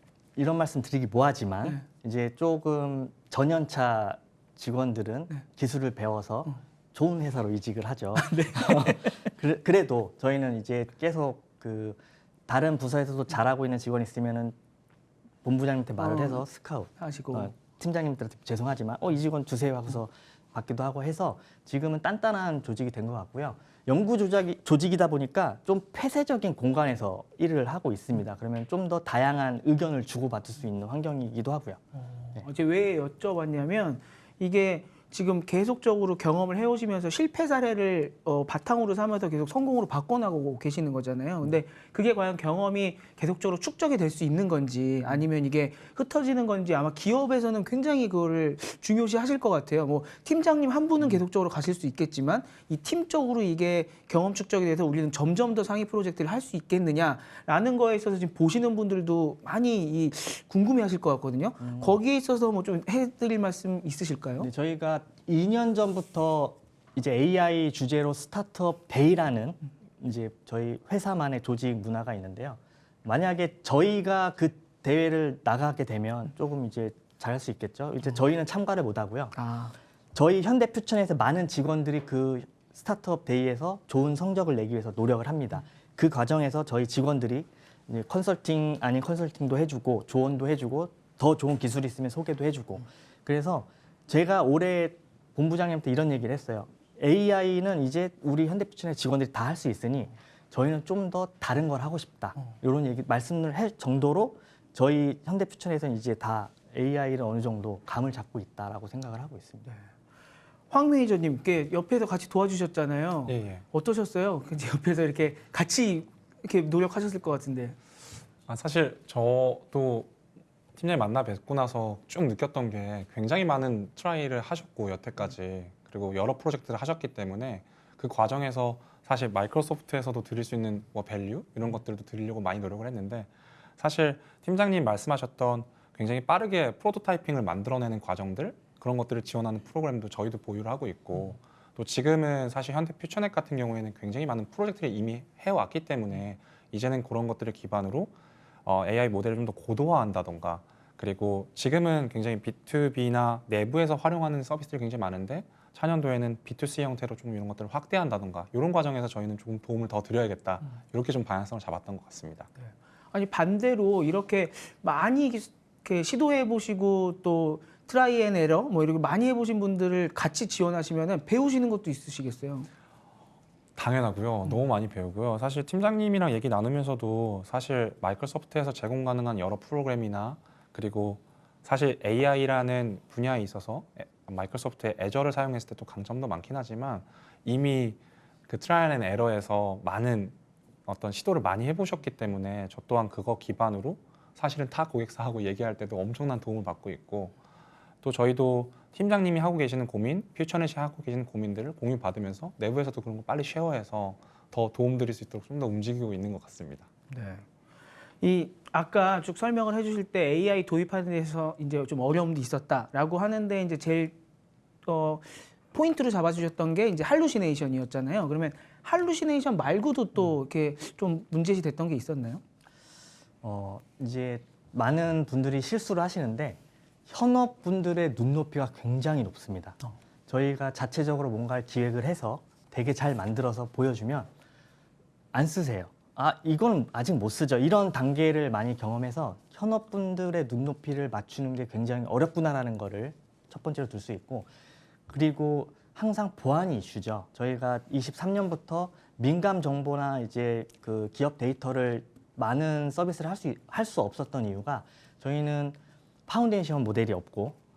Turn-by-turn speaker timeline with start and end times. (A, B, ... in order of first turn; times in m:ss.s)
0:00.4-0:14.6 A
0:08.2-0:09.2 B
0:15.4-0:31.8 A
0:16.0-0:16.4 B
0:17.0-0:17.5 B
0:32.2-1:04.5 B
1:01.6-1:02.0 A
1:04.4-1:19.4 A
1:19.4-1:19.7 B
1:20.2-1:49.8 A
1:50.7-1:57.8 B
1:53.3-1:53.6 C
1:58.5-2:00.1 C
2:00.8-2:28.1 C
2:28.6-2:42.5 C
2:43.1-2:52.7 B
2:53.8-3:10.4 C
3:10.9-3:17.4 C
3:18.0-3:26.9 C
3:27.1-3:27.4 B
3:28.2-3:34.2 B
3:34.8-3:42.4 B
3:43.4-3:54.3 A
3:55.3-4:04.5 A
4:05.1-4:17.6 A